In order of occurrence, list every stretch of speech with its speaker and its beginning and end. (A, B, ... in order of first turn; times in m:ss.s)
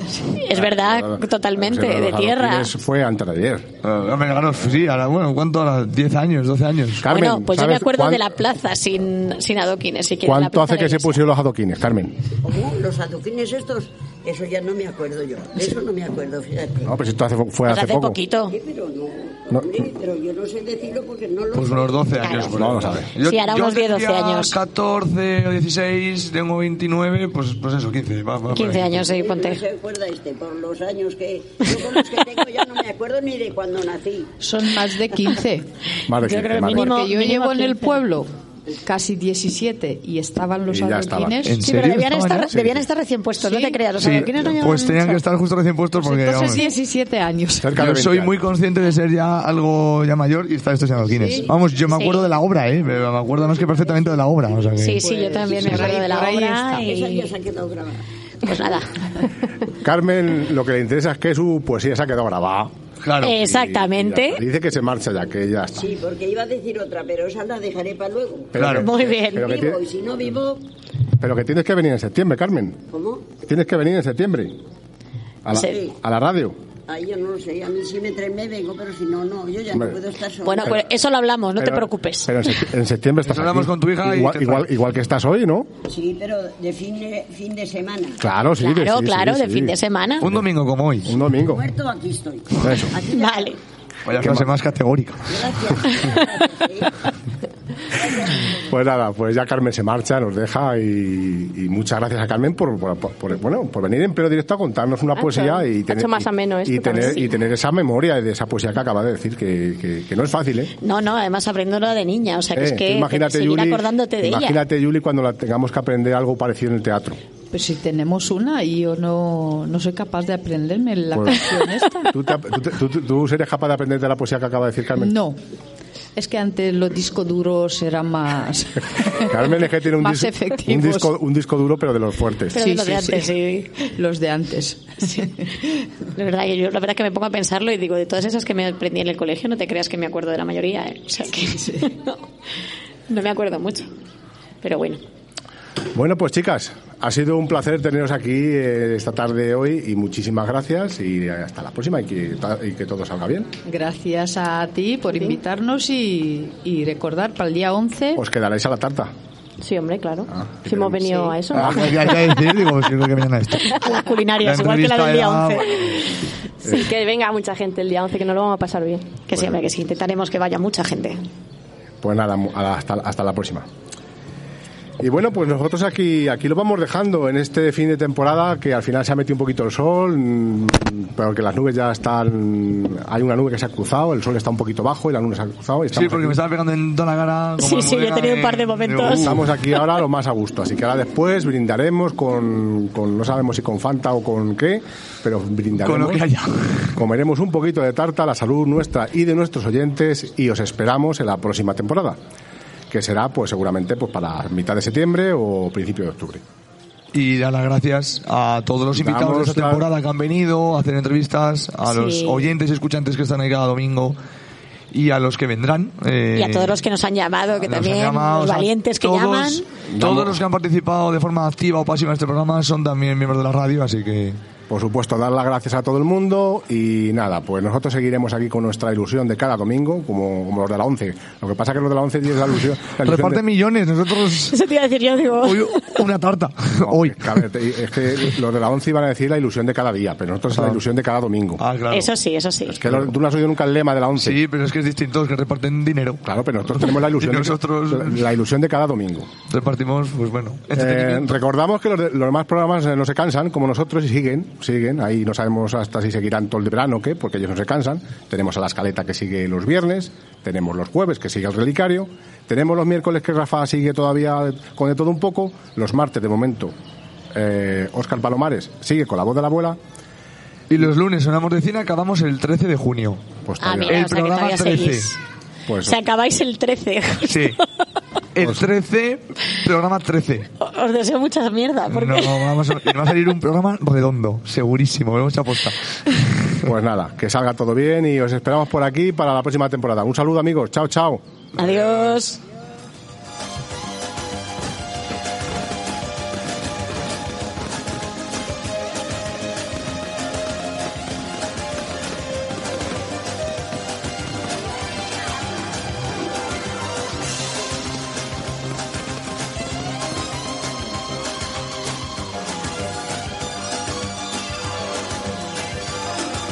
0:00.4-0:02.7 A
0:00.5-0:03.7 B
0:03.8-0:07.0 C
0:07.0-0:08.4 B
0:07.1-0:11.2 A
0:10.2-0:12.2 B
0:12.4-0:16.9 D
0:16.8-0:18.2 B
0:17.7-0:18.6 A
0:18.5-0:22.4 D
0:19.5-0:19.8 B
0:21.5-0:29.1 C
0:22.2-0:22.5 A
0:22.5-0:23.1 B
0:23.2-0:24.6 A
0:28.5-0:29.6 A
0:29.0-0:34.3 D
0:34.4-0:35.7 E
0:36.1-0:36.9 B
0:36.2-0:38.0 A
0:36.6-0:38.3 E
0:38.8-0:41.6 E
0:40.7-0:41.6 B
0:41.5-0:42.5 C
0:41.6-0:45.2 A
0:42.5-0:42.8 B
0:43.4-0:43.8 E
0:43.9-0:46.6 C
0:46.0-0:46.6 A
0:46.2-0:47.7 E
0:47.6-0:48.4 B
0:47.7-0:55.0 C
0:51.2-0:51.5 E
0:51.9-0:52.2 A
0:54.8-0:57.3 A
0:55.0-0:56.9 E
0:55.1-0:58.0 D
0:58.4-0:58.9 A
0:59.8-1:02.7 B
1:03.0-1:03.4 C
1:03.2-1:04.4 A
1:03.3-1:05.8 B
1:05.8-1:08.5 D
1:08.5-1:09.8 B
1:08.6-1:08.8 C
1:08.8-1:09.6 A
1:09.3-1:10.6 D
1:11.2-1:12.8 B
1:12.9-1:13.3 D
1:13.4-1:14.6 B
1:15.4-1:16.6 B
1:15.6-1:15.9 D
1:16.9-1:20.8 D
1:19.7-1:20.0 B
1:20.4-1:22.5 A
1:21.6-1:25.7 B
1:23.2-1:24.7 C
1:25.9-1:28.2 D
1:28.2-1:29.8 B
1:28.6-1:30.3 A
1:30.2-1:31.1 C
1:31.0-1:31.7 B
1:31.5-1:33.5 D
1:32.6-1:32.9 B
1:33.1-1:33.6 A
1:34.0-1:35.3 C
1:34.2-1:34.5 B
1:35.3-1:36.9 D
1:37.9-1:38.7 D
1:38.7-1:50.7 B
1:45.2-1:47.2 F
1:50.8-1:54.6 A
1:52.5-1:57.2 B
1:57.5-2:02.1 E
2:01.1-2:01.4 B
2:02.1-2:05.1 B
2:05.0-2:05.4 E
2:06.2-2:11.1 E
2:09.3-2:12.6 B
2:12.5-2:13.7 A
2:12.5-2:13.3 E
2:13.9-2:15.5 E
2:16.1-2:22.2 A
2:21.5-2:21.9 E
2:23.1-2:23.9 A
2:24.6-2:25.0 A
2:25.9-2:33.5 B
2:33.6-2:38.2 E
2:35.1-2:35.4 F
2:38.2-2:39.1 B
2:39.6-2:41.8 F
2:40.3-2:42.1 B
2:41.6-2:43.7 C
2:43.7-2:45.7 A
2:44.4-2:45.9 C
2:46.6-2:49.1 F
2:49.3-2:51.2 A
2:52.0-2:53.7 B
2:55.0-3:06.4 B
3:05.9-3:09.5 C
3:07.6-3:09.4 A
3:09.0-3:16.2 B
3:15.8-3:17.0 C
3:17.0-3:22.2 B
3:22.9-3:26.4 B
3:27.1-3:34.2 C
3:28.9-3:29.9 B
3:31.8-3:32.5 A
3:34.9-3:36.8 C
3:36.3-3:39.6 A
3:37.6-3:44.4 C
3:39.9-3:40.4 B
3:44.7-3:53.4 B
3:53.0-3:54.5 C
3:54.5-3:56.0 A
3:55.4-3:57.4 C
3:56.8-4:01.6 B
4:01.6-4:02.1 C
4:01.9-4:02.8 A
4:02.7-4:04.4 B
4:04.2-4:08.2 C
4:06.2-4:09.3 B
4:09.5-4:11.3 C
4:10.7-4:26.7 B
4:27.3-4:29.8 B
4:30.7-4:33.2 C
4:33.4-4:34.0 B
4:33.6-4:35.2 A
4:33.8-4:35.1 C
4:35.7-4:36.0 B
4:35.8-4:37.6 A
4:37.2-4:37.6 C
4:38.3-4:40.5 C
4:38.4-4:38.6 B
4:40.6-4:42.5 A
4:41.9-4:46.5 C
4:46.6-4:51.2 B
4:51.6-4:52.4 A